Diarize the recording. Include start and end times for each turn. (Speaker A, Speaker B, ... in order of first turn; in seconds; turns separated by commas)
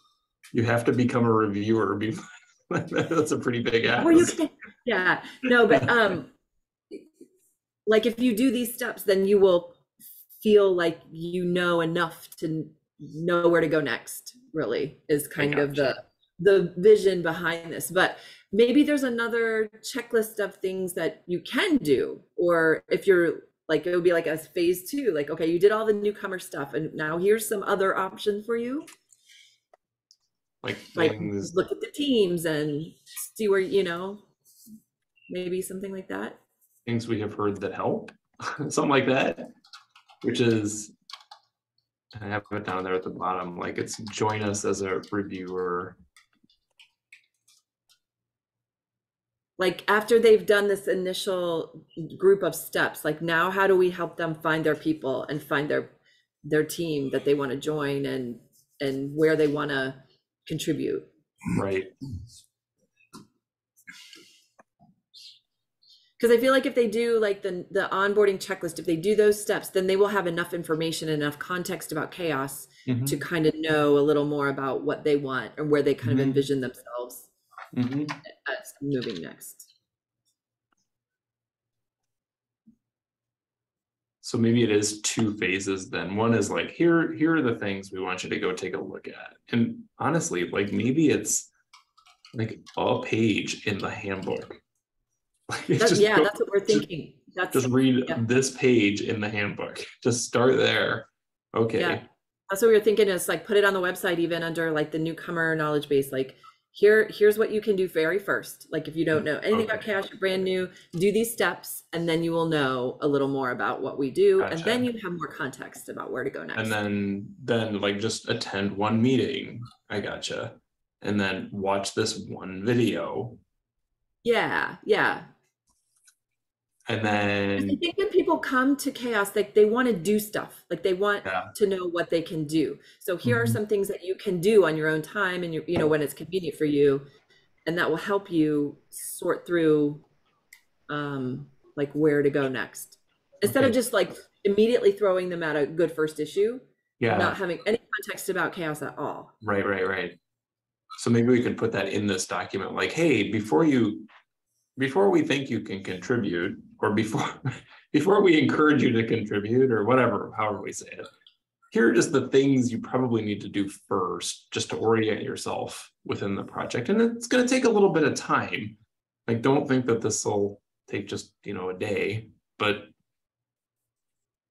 Speaker A: 0.5-4.4, Speaker B: 4.0-6.3, Speaker B: 7.9-9.8, Speaker B: 10.4-28.9, Speaker A: 15.4-16.0, Speaker A: 30.6-31.5, Speaker B: 31.0-34.2, Speaker B: 35.3-36.4, Speaker A: 36.9-39.5, Speaker A: 40.2-40.9, Speaker A: 42.1-46.0, Speaker B: 49.6-55.9, Speaker B: 56.4-61.1, Speaker A: 61.5-61.9, Speaker B: 66.2-77.3, Speaker A: 72.9-73.2, Speaker A: 76.0-76.4, Speaker A: 77.7-78.2, Speaker B: 78.3-79.7, Speaker A: 84.2-91.5, Speaker A: 92.3-94.6, Speaker A: 95.5-96.9, Speaker B: 95.8-98.2, Speaker A: 97.5-102.0, Speaker B: 101.8-116.8, Speaker A: 109.2-109.9, Speaker A: 114.4-114.9, Speaker A: 116.6-123.4, Speaker B: 124.2-125.3, Speaker A: 126.9-127.8, Speaker B: 127.6-137.1, Speaker A: 131.2-131.5, Speaker A: 133.2-133.6, Speaker B: 137.7-140.1, Speaker B: 140.9-149.3, Speaker A: 143.5-143.8, Speaker A: 147.0-147.4, Speaker A: 149.4-150.2, Speaker A: 151.0-154.1, Speaker A: 154.8-161.1, Speaker A: 161.7-172.9